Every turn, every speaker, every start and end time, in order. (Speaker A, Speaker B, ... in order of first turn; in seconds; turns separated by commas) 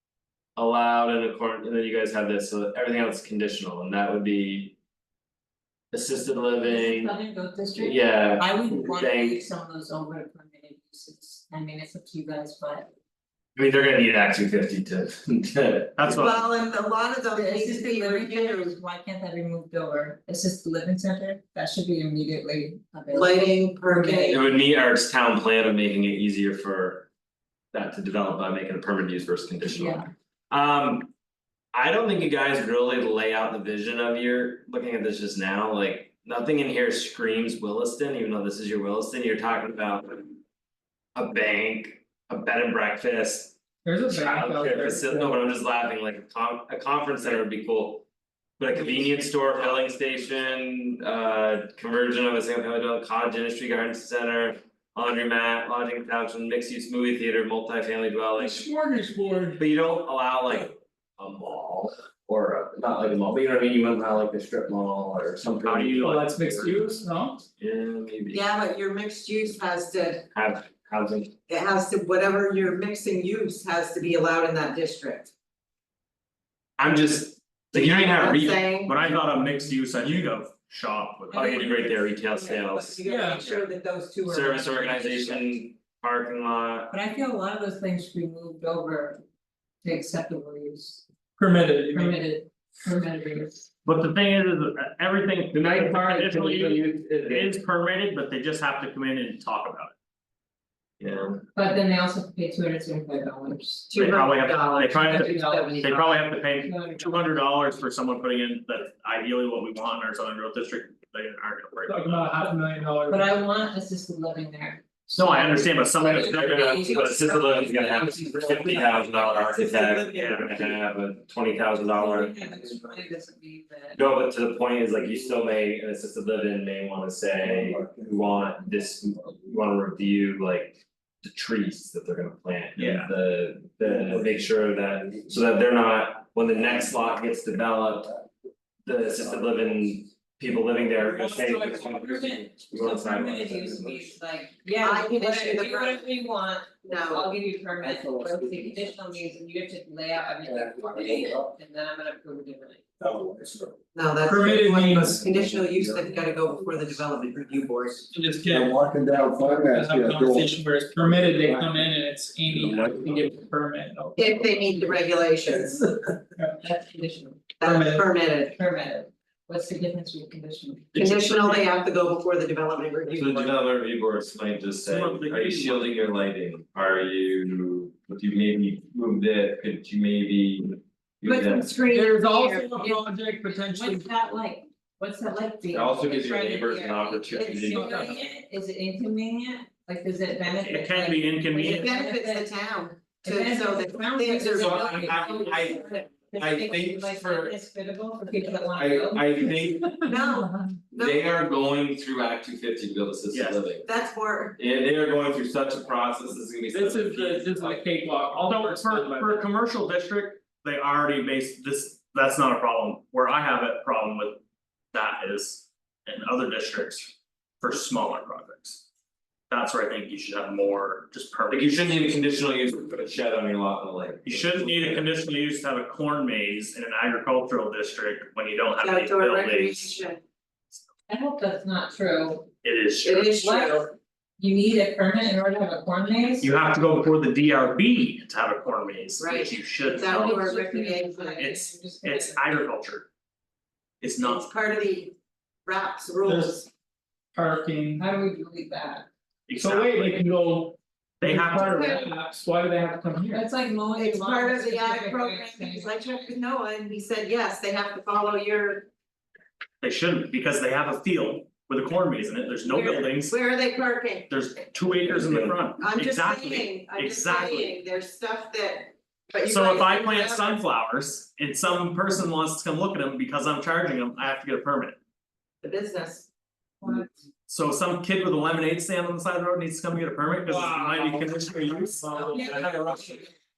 Speaker A: 0.6-4.8, Speaker A: 5.9-7.1, Speaker B: 6.5-12.9, Speaker A: 7.8-9.4, Speaker A: 13.6-16.4, Speaker C: 16.0-16.3, Speaker D: 16.2-18.8, Speaker B: 17.3-24.4, Speaker D: 23.1-24.4, Speaker A: 24.3-27.1, Speaker A: 27.7-31.1, Speaker B: 29.7-30.1, Speaker A: 31.7-40.4, Speaker A: 41.1-43.5, Speaker E: 43.8-45.2, Speaker A: 44.1-48.0, Speaker A: 48.6-58.7, Speaker E: 58.4-59.6, Speaker A: 59.6-66.9, Speaker C: 65.6-66.2, Speaker E: 66.0-67.4, Speaker A: 67.6-68.4, Speaker D: 68.3-70.3, Speaker A: 70.3-71.3, Speaker D: 71.5-75.3, Speaker A: 76.8-78.6, Speaker D: 77.7-79.0, Speaker C: 78.9-81.8, Speaker B: 81.3-82.2, Speaker A: 81.3-83.0, Speaker D: 81.7-85.5, Speaker E: 83.0-83.6, Speaker A: 84.2-87.0, Speaker B: 86.9-89.2, Speaker B: 89.8-91.0, Speaker E: 91.4-92.2, Speaker B: 91.9-93.7, Speaker C: 93.8-99.9, Speaker A: 95.5-97.5, Speaker A: 101.0-101.4, Speaker B: 101.5-104.1, Speaker D: 103.9-106.2, Speaker C: 103.9-112.3, Speaker B: 105.0-107.7, Speaker E: 111.9-113.4, Speaker B: 113.1-118.5, Speaker C: 115.1-117.0, Speaker A: 116.0-122.4, Speaker D: 118.4-120.7, Speaker C: 120.1-120.5, Speaker B: 121.9-124.0, Speaker A: 123.9-138.2, Speaker F: 127.4-128.7, Speaker C: 132.8-133.1, Speaker F: 133.8-135.3, Speaker A: 138.8-143.6, Speaker E: 141.0-142.2, Speaker B: 141.6-152.8, Speaker F: 143.6-144.2, Speaker D: 144.8-146.1, Speaker D: 146.8-147.3, Speaker F: 147.8-149.0, Speaker F: 150.4-151.5, Speaker F: 153.0-153.8, Speaker D: 153.9-158.1, Speaker E: 154.2-155.3, Speaker F: 155.0-157.0, Speaker E: 158.1-164.6, Speaker F: 158.5-160.5, Speaker F: 161.1-161.8, Speaker F: 162.5-163.2, Speaker D: 164.2-165.9, Speaker B: 166.5-167.6, Speaker D: 167.6-168.5, Speaker E: 167.6-168.0, Speaker B: 168.5-171.0, Speaker D: 170.9-173.5, Speaker C: 171.3-171.6, Speaker A: 173.1-181.7, Speaker C: 174.8-175.9, Speaker D: 181.2-182.7, Speaker E: 181.9-184.1, Speaker B: 182.7-183.1, Speaker B: 183.7-199.5, Speaker A: 185.7-188.2, Speaker D: 187.3-188.1, Speaker E: 187.7-188.1, Speaker C: 190.5-191.8, Speaker D: 191.6-195.5, Speaker A: 194.5-197.6, Speaker A: 198.5-199.9, Speaker E: 199.8-200.7, Speaker D: 200.0-201.2, Speaker A: 200.9-203.9, Speaker C: 203.3-203.8, Speaker D: 203.8-204.6, Speaker A: 204.6-207.8, Speaker E: 206.7-209.4, Speaker C: 208.4-214.4, Speaker C: 214.9-218.8, Speaker C: 219.5-222.0, Speaker A: 221.5-225.0, Speaker C: 224.2-229.9, Speaker D: 228.8-230.2, Speaker B: 231.1-232.6, Speaker C: 232.6-233.4, Speaker D: 233.0-233.9, Speaker B: 233.3-236.5, Speaker C: 236.4-240.3, Speaker D: 239.2-241.4, Speaker B: 239.8-242.5, Speaker C: 241.4-243.1, Speaker C: 244.0-244.5, Speaker D: 244.2-246.7, Speaker E: 247.3-248.0, Speaker B: 248.0-249.1, Speaker C: 249.5-250.2, Speaker E: 249.6-253.4, Speaker C: 251.2-252.1, Speaker D: 251.6-252.0, Speaker B: 253.3-256.0, Speaker D: 253.9-258.9, Speaker C: 259.8-263.4, Speaker D: 262.6-264.3, Speaker C: 264.3-267.8, Speaker A: 265.1-265.6, Speaker D: 265.8-270.6, Speaker C: 269.4-275.0, Speaker D: 275.6-276.3, Speaker C: 277.5-282.5, Speaker E: 280.4-281.7, Speaker A: 282.0-283.2, Speaker B: 282.3-282.6